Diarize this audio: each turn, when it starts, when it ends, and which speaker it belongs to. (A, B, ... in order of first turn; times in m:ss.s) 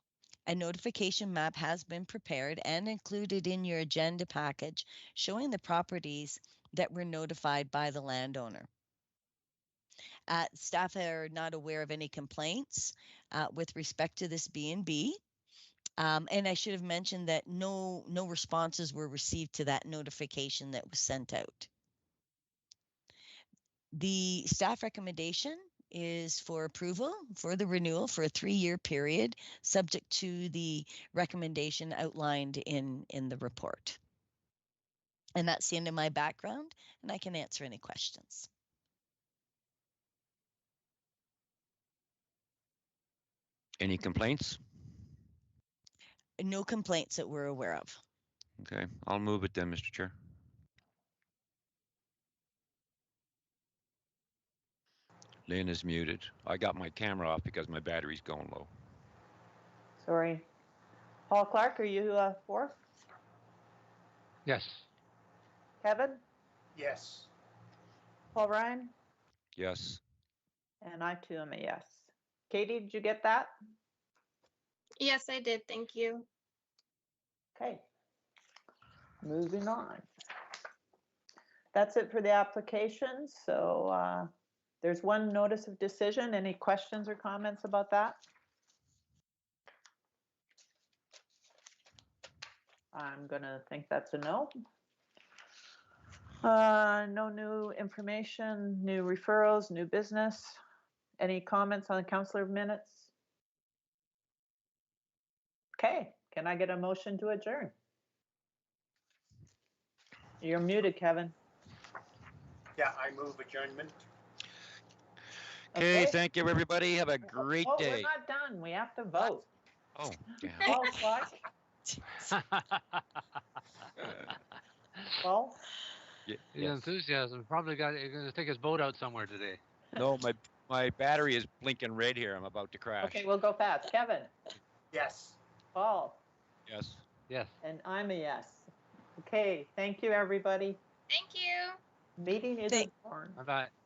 0:00.5-0:08.7 A
0:10.3-0:15.2 A
0:16.0-0:21.7 A
0:23.9-0:34.0 A
0:35.4-0:38.5 A
0:43.8-0:44.6 B
0:46.4-0:48.0 A
0:48.6-0:50.1 B
0:55.5-0:58.7 B
1:00.0-1:00.5 C
1:01.3-1:02.8 C
1:04.5-1:04.8 D
1:05.8-1:06.2 C
1:06.8-1:07.3 E
1:08.3-1:08.9 C
1:09.6-1:10.0 B
1:10.8-1:13.5 C
1:15.0-1:16.3 F
1:17.6-1:17.9 C
1:19.2-1:20.1 C
1:21.7-1:24.3 C
1:24.8-1:28.2 C
1:32.9-1:34.5 C
1:36.4-1:40.6 C
1:41.2-1:43.1 C
1:45.8-1:47.8 C
1:50.4-1:51.3 C
1:52.8-1:54.0 E
1:55.7-1:56.2 C
1:55.7-1:58.1 B
1:57.3-1:59.4 C
2:00.0-2:01.0 B
2:00.7-2:01.4 C
2:02.4-2:02.8 D
2:05.2-2:05.6 C
2:06.3-2:06.9 B
2:06.6-2:09.6 D
2:10.0-2:13.2 B
2:13.0-2:14.3 C
2:14.9-2:15.4 E
2:15.7-2:16.2 C
2:16.7-2:17.0 B
2:17.3-2:17.5 D
2:17.6-2:20.8 C
2:21.1-2:21.8 F
2:22.2-2:23.4 C
2:23.4-2:23.7 D